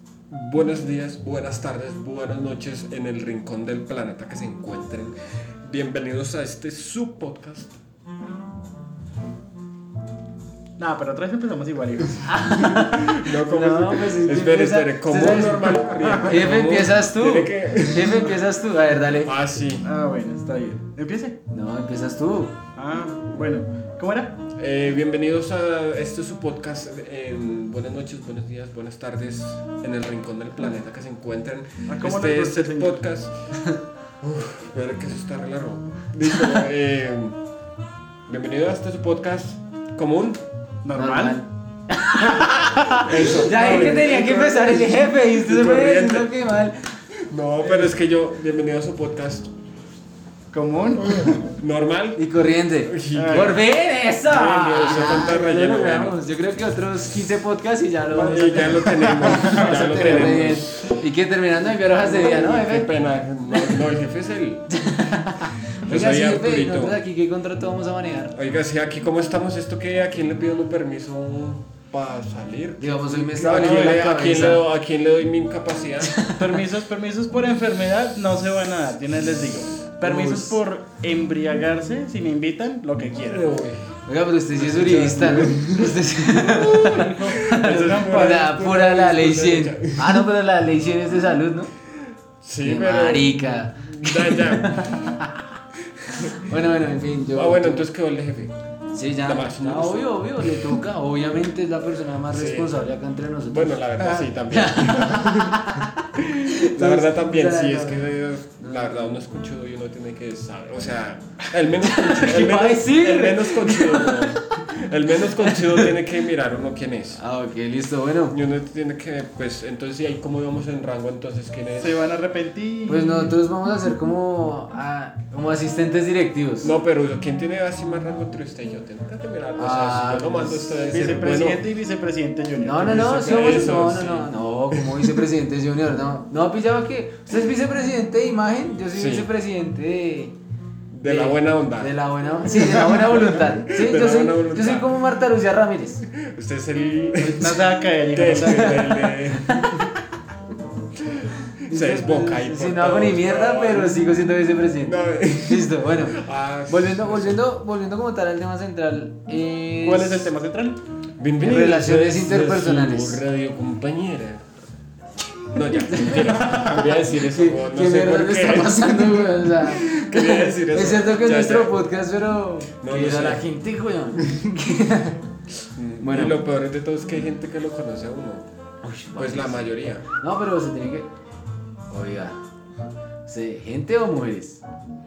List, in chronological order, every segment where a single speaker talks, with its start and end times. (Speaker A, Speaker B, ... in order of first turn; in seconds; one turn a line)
Speaker A: 0.3-7.7
Speaker B: 10.8-12.3
Speaker C: 12.2-19.3
Speaker A: 12.5-18.4
Speaker A: 19.2-19.9
Speaker B: 19.8-21.4
Speaker C: 21.5-22.6
Speaker B: 22.8-24.3
Speaker A: 24.6-33.6
Speaker B: 31.9-33.0
Speaker A: 34.2-37.4
Speaker A: 38.3-40.4
Speaker B: 40.8-41.4
Speaker C: 41.0-46.9
Speaker A: 43.0-46.3
Speaker B: 43.4-44.7
Speaker A: 47.3-49.5
Speaker B: 50.5-51.4
Speaker A: 51.0-52.2
Speaker C: 52.2-62.9
Speaker A: 52.8-53.6
Speaker B: 53.1-53.6
Speaker A: 54.1-56.2
Speaker A: 58.1-61.0
Speaker B: 58.2-60.3
Speaker A: 62.0-64.7
Speaker C: 63.5-63.8
Speaker C: 64.7-68.3
Speaker A: 65.8-67.0
Speaker A: 68.3-76.3
Speaker C: 72.8-74.6
Speaker C: 76.0-76.4
Speaker B: 76.3-83.5
Speaker C: 80.0-80.6
Speaker A: 83.3-83.9
Speaker C: 84.1-91.7
Speaker A: 84.6-90.2
Speaker B: 86.2-88.5
Speaker A: 92.4-95.1
Speaker C: 92.6-95.4
Speaker C: 96.1-97.9
Speaker A: 97.3-98.5
Speaker C: 98.9-108.0
Speaker A: 99.2-100.8
Speaker A: 102.3-102.9
Speaker A: 103.4-117.2
Speaker C: 108.6-109.2
Speaker C: 111.8-114.7
Speaker C: 115.3-115.9
Speaker C: 117.2-118.4
Speaker A: 118.3-122.0
Speaker B: 121.8-123.4
Speaker C: 122.9-126.7
Speaker A: 126.6-131.6
Speaker C: 129.6-131.0
Speaker B: 130.9-133.1
Speaker C: 132.6-140.3
Speaker A: 132.9-135.1
Speaker A: 138.9-139.3
Speaker A: 140.9-141.9
Speaker C: 141.0-146.1
Speaker A: 142.5-144.9
Speaker A: 146.1-150.0
Speaker B: 147.2-149.0
Speaker C: 148.4-150.0
Speaker A: 151.0-154.1
Speaker C: 151.7-160.3
Speaker A: 154.8-157.4
Speaker B: 159.8-160.8
Speaker A: 161.2-164.5
Speaker C: 161.4-163.2
Speaker A: 165.5-171.8
Speaker C: 165.9-175.2
Speaker A: 172.8-173.4
Speaker A: 175.7-178.5
Speaker C: 176.0-176.4
Speaker C: 178.8-181.1
Speaker A: 179.2-180.1
Speaker C: 181.9-182.4
Speaker C: 183.3-184.6